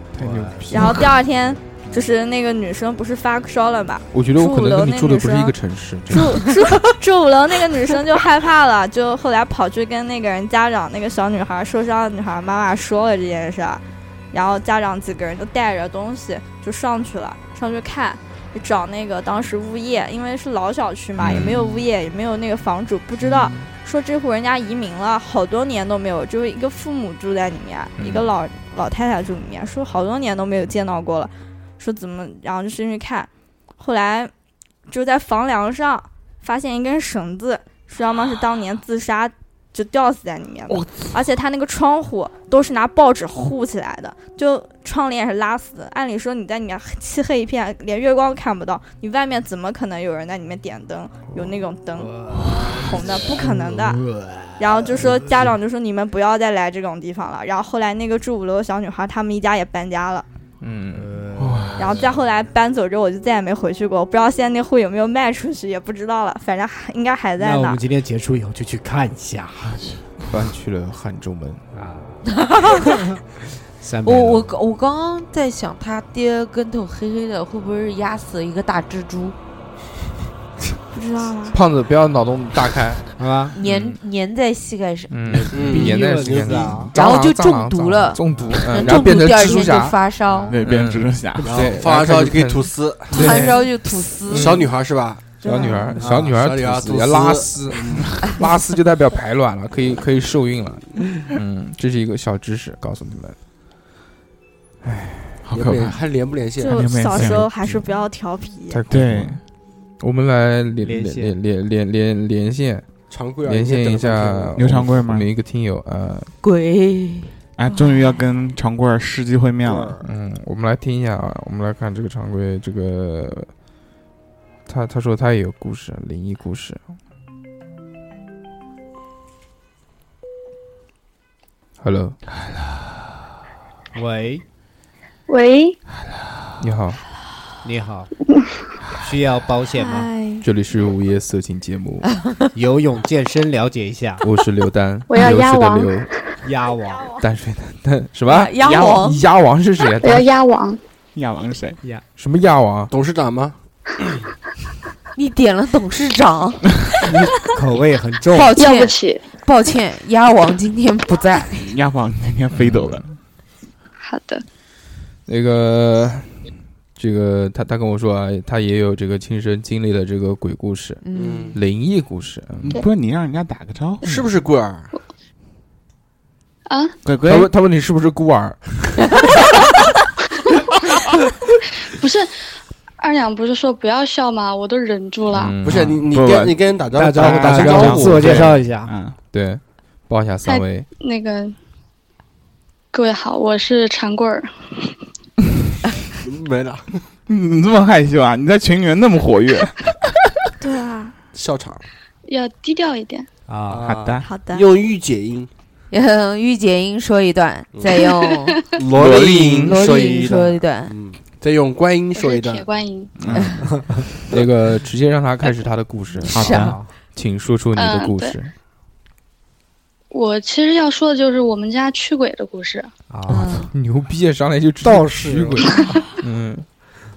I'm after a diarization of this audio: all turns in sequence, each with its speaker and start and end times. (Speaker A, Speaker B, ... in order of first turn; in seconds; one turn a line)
Speaker A: 0.1-1.1
Speaker B: 0.2-0.9
Speaker C: 0.7-5.5
Speaker A: 4.1-6.5
Speaker C: 6.1-34.3
Speaker A: 21.2-21.5
Speaker D: 21.2-21.8
Speaker D: 23.2-23.7
Speaker A: 28.0-28.3
Speaker C: 34.9-54.0
Speaker D: 40.7-41.2
Speaker B: 52.0-55.5
Speaker C: 54.6-60.2
Speaker A: 60.6-61.1
Speaker B: 60.9-62.1
Speaker D: 61.4-62.0
Speaker C: 61.8-67.8
Speaker B: 67.4-69.8
Speaker D: 69.7-70.0
Speaker A: 70.3-71.6
Speaker B: 71.7-72.1
Speaker E: 72.3-73.0
Speaker B: 72.8-73.2
Speaker B: 73.8-74.5
Speaker E: 74.0-79.3
Speaker C: 80.9-81.6
Speaker A: 81.5-84.0
Speaker B: 83.2-83.6
Speaker E: 83.5-85.5
Speaker A: 85.1-90.0
Speaker B: 85.3-86.9
Speaker F: 85.5-86.9
Speaker E: 86.9-90.6
Speaker D: 90.5-91.5
Speaker A: 90.6-92.7
Speaker F: 91.4-93.4
Speaker E: 93.1-94.7
Speaker B: 93.1-93.6
Speaker F: 94.3-95.3
Speaker A: 94.3-94.5
Speaker A: 95.4-103.4
Speaker C: 95.4-96.0
Speaker F: 96.0-98.2
Speaker A: 104.8-105.4
Speaker D: 105.4-106.0
Speaker F: 105.5-107.3
Speaker C: 106.6-108.8
Speaker D: 106.7-107.8
Speaker A: 108.7-109.4
Speaker D: 108.9-109.4
Speaker A: 110.0-112.9
Speaker B: 110.8-111.4
Speaker F: 113.1-114.8
Speaker A: 113.4-116.3
Speaker D: 114.6-115.3
Speaker E: 116.4-118.0
Speaker D: 117.6-120.0
Speaker F: 119.6-120.1
Speaker A: 120.0-123.5
Speaker A: 124.7-126.8
Speaker A: 131.8-132.2
Speaker B: 133.9-134.4
Speaker G: 135.3-135.8
Speaker A: 136.6-137.0
Speaker B: 137.6-138.1
Speaker B: 139.0-140.1
Speaker C: 139.7-140.4
Speaker A: 140.4-142.1
Speaker E: 142.1-142.4
Speaker B: 142.5-144.2
Speaker A: 144.2-146.1
Speaker G: 145.1-146.0
Speaker B: 146.4-147.1
Speaker A: 147.2-150.3
Speaker E: 148.3-149.2
Speaker D: 148.6-149.1
Speaker G: 150.0-150.8
Speaker D: 151.1-151.8
Speaker A: 152.2-152.9
Speaker F: 152.9-153.6
Speaker E: 155.1-156.8
Speaker B: 157.0-158.6
Speaker E: 158.3-161.7
Speaker G: 158.5-159.2
Speaker D: 161.5-163.1
Speaker A: 162.5-163.0
Speaker G: 164.0-164.4
Speaker A: 165.3-171.0
Speaker E: 171.0-171.6
Speaker F: 171.1-171.6
Speaker A: 171.5-172.8
Speaker D: 172.6-174.1
Speaker F: 174.0-174.9
Speaker G: 176.7-176.9
Speaker D: 177.0-177.5
Speaker A: 177.3-179.1
Speaker G: 181.9-182.3
Speaker G: 183.0-185.6
Speaker A: 185.3-186.0
Speaker F: 185.6-188.6
Speaker D: 185.7-186.6
Speaker B: 186.9-188.9
Speaker D: 187.1-189.2
Speaker A: 187.5-188.4
Speaker A: 189.3-190.9
Speaker G: 190.4-191.6
Speaker G: 192.9-194.9
Speaker F: 196.2-197.0
Speaker D: 197.3-200.1
Speaker C: 200.6-201.2
Speaker F: 201.3-201.8
Speaker G: 202.2-203.3
Speaker B: 203.5-204.2
Speaker F: 203.7-205.5
Speaker D: 203.9-204.3
Speaker C: 204.2-204.7
Speaker E: 205.9-208.6
Speaker F: 207.7-208.0
Speaker G: 208.1-208.7
Speaker F: 208.7-212.7
Speaker D: 209.0-209.5
Speaker A: 209.0-209.7
Speaker E: 209.6-210.9
Speaker G: 212.1-213.2
Speaker D: 213.2-213.7
Speaker E: 213.3-213.6
Speaker B: 213.7-214.0
Speaker A: 214.3-218.5
Speaker E: 216.3-216.7
Speaker D: 216.3-216.8
Speaker B: 216.4-216.9
Speaker G: 217.7-218.4
Speaker G: 220.1-222.9
Speaker B: 223.1-223.7
Speaker E: 223.3-223.7
Speaker A: 223.3-226.7
Speaker B: 224.8-225.7